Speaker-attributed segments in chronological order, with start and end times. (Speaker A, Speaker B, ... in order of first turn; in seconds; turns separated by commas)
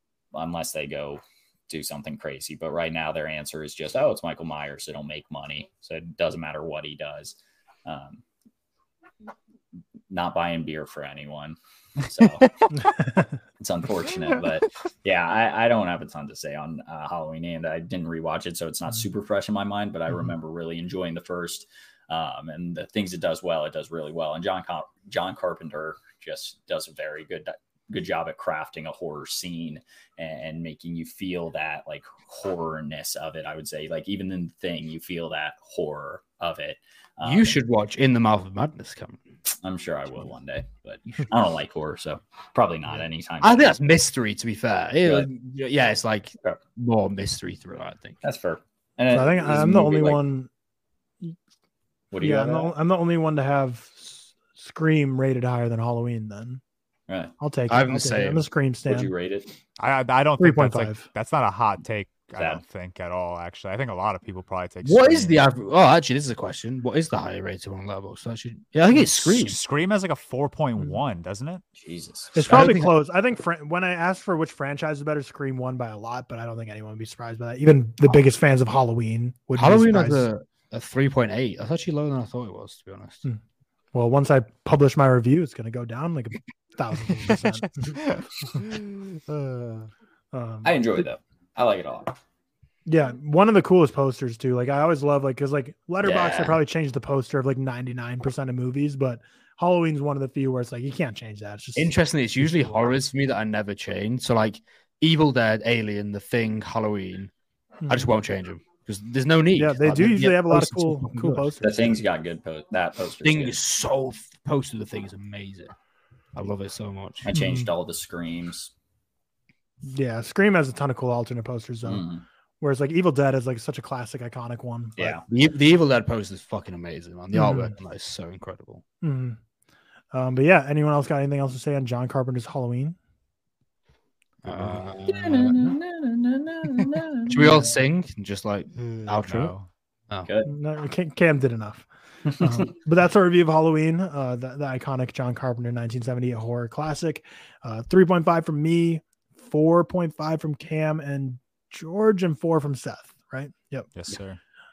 Speaker A: 0.3-8.2, Speaker A: 10.1-12.5, Speaker B: 12.4-12.7, Speaker C: 12.8-13.3, Speaker A: 13.6-37.5, Speaker D: 37.2-39.2, Speaker A: 39.6-43.6, Speaker D: 43.4-48.2, Speaker A: 45.0-45.3, Speaker A: 48.2-50.2, Speaker C: 49.1-50.5, Speaker A: 52.1-52.7, Speaker C: 52.2-56.6, Speaker C: 57.4-59.1, Speaker D: 57.7-58.4, Speaker A: 58.9-59.5, Speaker B: 59.8-65.5, Speaker C: 60.4-61.1, Speaker A: 62.4-62.6, Speaker D: 64.8-69.6, Speaker B: 69.0-71.6, Speaker A: 71.8-72.3, Speaker C: 72.3-80.3, Speaker D: 72.5-72.9, Speaker D: 79.6-83.2, Speaker C: 83.9-88.0, Speaker B: 88.0-89.9, Speaker C: 90.3-91.0, Speaker A: 90.6-92.2, Speaker C: 92.8-102.7, Speaker A: 96.0-96.6, Speaker D: 101.8-107.3, Speaker C: 107.8-108.1, Speaker D: 107.9-111.5, Speaker C: 109.5-112.0, Speaker A: 111.6-113.6, Speaker D: 113.2-115.7, Speaker D: 116.3-117.3, Speaker A: 117.2-118.7, Speaker C: 117.3-117.7, Speaker C: 119.8-122.0, Speaker A: 121.8-122.2, Speaker C: 122.6-125.1, Speaker A: 125.0-125.2, Speaker D: 125.3-128.8, Speaker C: 127.3-127.7, Speaker C: 129.0-129.4, Speaker C: 130.1-133.0, Speaker D: 134.4-135.4, Speaker B: 134.4-135.7, Speaker A: 135.1-137.6, Speaker D: 137.3-139.5, Speaker B: 138.8-139.7, Speaker C: 140.4-153.9, Speaker B: 153.9-154.4